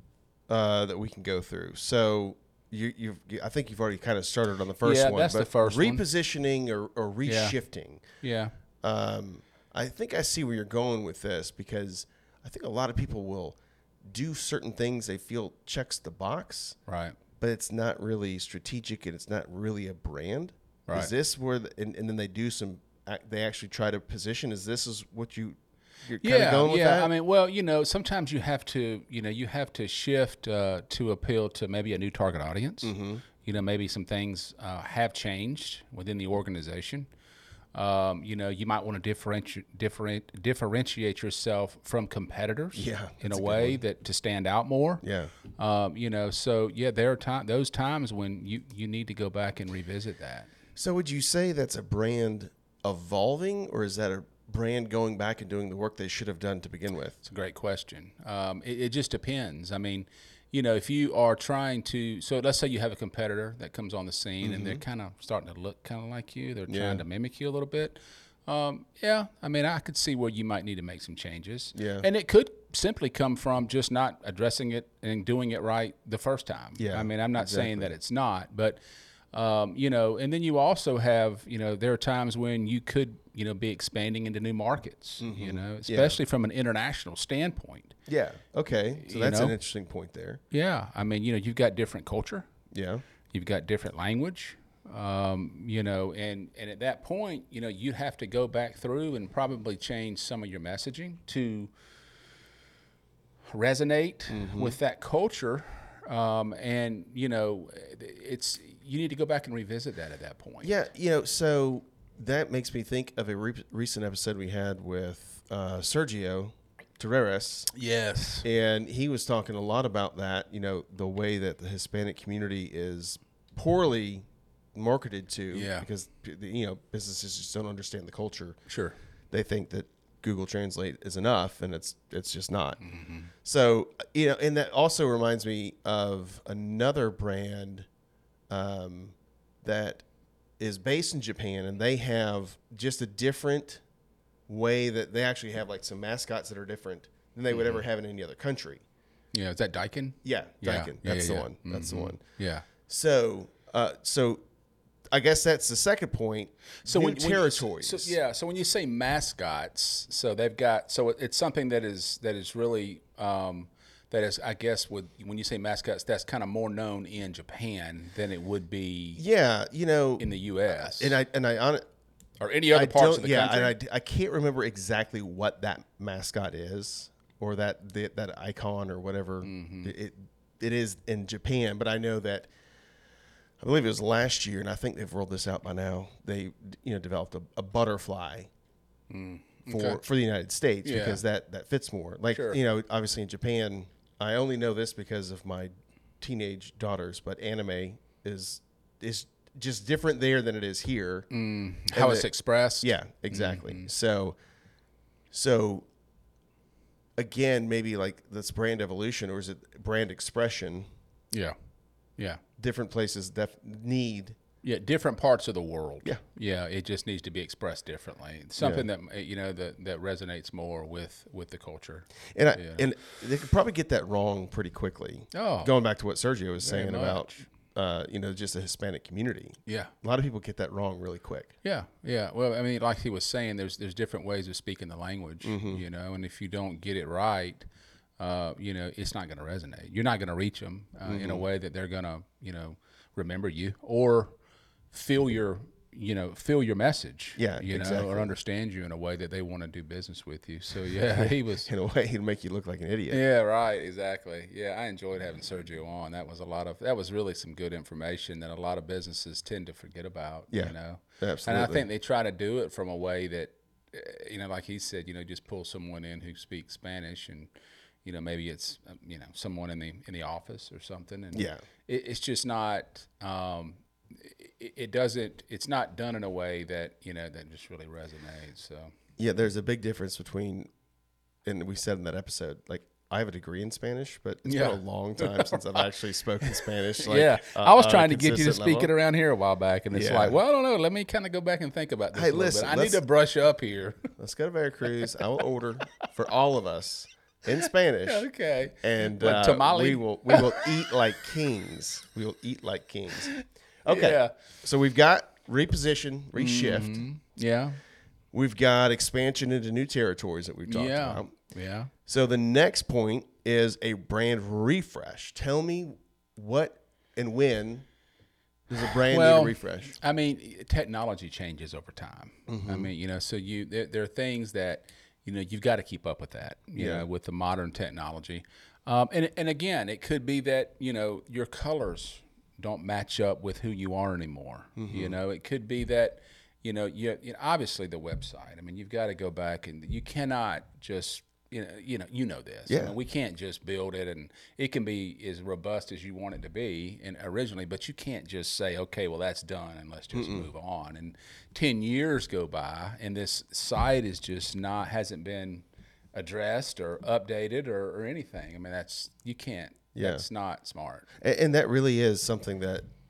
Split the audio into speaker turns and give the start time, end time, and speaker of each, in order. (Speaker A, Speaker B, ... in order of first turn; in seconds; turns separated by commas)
Speaker A: 0.5-8.0, Speaker B: 4.8-6.0, Speaker B: 7.2-7.6, Speaker B: 8.2-8.5, Speaker A: 8.8-16.8, Speaker B: 16.9-17.2, Speaker A: 17.4-27.1, Speaker B: 20.9-21.1, Speaker B: 26.2-37.1, Speaker A: 32.8-33.2, Speaker B: 37.7-45.0, Speaker A: 42.7-43.8, Speaker A: 45.0-45.3, Speaker B: 45.6-50.5, Speaker A: 50.8-57.2, Speaker B: 57.2-78.8, Speaker A: 64.4-64.8, Speaker A: 66.7-67.0, Speaker A: 71.7-72.1, Speaker A: 76.8-77.9, Speaker B: 79.3-87.9, Speaker A: 85.2-86.2, Speaker A: 88.1-90.4, Speaker B: 89.0-89.6, Speaker B: 90.5-92.5, Speaker A: 92.7-93.0, Speaker B: 93.3-101.7, Speaker B: 103.5-110.7, Speaker A: 104.3-104.8, Speaker A: 110.6-117.7, Speaker B: 117.7-118.5, Speaker A: 118.4-128.6, Speaker B: 125.5-125.9, Speaker B: 128.7-128.9, Speaker A: 129.3-132.8, Speaker B: 132.8-133.3, Speaker A: 133.4-137.8, Speaker A: 138.5-140.0, Speaker A: 140.6-143.8, Speaker A: 144.5-148.8, Speaker B: 147.5-147.8, Speaker B: 149.3-152.6, Speaker A: 150.2-152.2, Speaker A: 152.9-154.4, Speaker A: 155.1-158.2, Speaker B: 156.8-169.2, Speaker A: 169.2-171.8, Speaker B: 170.2-171.2, Speaker B: 172.4-173.7, Speaker A: 172.7-182.5, Speaker B: 179.4-179.9, Speaker A: 183.6-188.5, Speaker B: 189.1-190.0, Speaker A: 189.7-201.3, Speaker B: 190.8-191.2, Speaker B: 192.3-192.6, Speaker B: 201.3-203.9, Speaker A: 201.9-204.3, Speaker A: 205.3-205.9, Speaker A: 207.2-210.8, Speaker A: 212.6-214.4, Speaker B: 214.6-222.8, Speaker A: 218.6-218.9, Speaker A: 222.3-231.5, Speaker B: 225.3-225.7, Speaker B: 226.6-227.4, Speaker B: 229.7-229.9, Speaker B: 231.6-237.6, Speaker A: 235.4-235.8, Speaker B: 238.2-244.3, Speaker A: 241.1-241.4, Speaker B: 244.9-251.7, Speaker A: 247.4-248.3, Speaker A: 250.9-253.2, Speaker B: 253.1-267.5, Speaker A: 260.5-261.9, Speaker B: 268.0-278.9, Speaker A: 271.3-271.6, Speaker A: 279.2-280.7, Speaker A: 281.4-288.9, Speaker B: 284.4-285.8, Speaker B: 286.4-294.0, Speaker A: 289.9-290.4, Speaker A: 292.1-293.0, Speaker A: 294.2-298.3, Speaker B: 298.0-300.9, Speaker A: 298.8-303.3, Speaker B: 303.3-304.3, Speaker A: 303.8-307.0, Speaker B: 306.4-307.8, Speaker A: 308.3-311.3, Speaker B: 310.7-311.9, Speaker A: 312.1-317.8, Speaker A: 318.7-319.9, Speaker B: 318.7-361.1, Speaker A: 322.5-322.9, Speaker A: 326.7-327.1, Speaker A: 334.8-335.2, Speaker A: 342.7-343.0, Speaker A: 350.1-350.5, Speaker A: 359.9-360.3, Speaker A: 361.2-362.9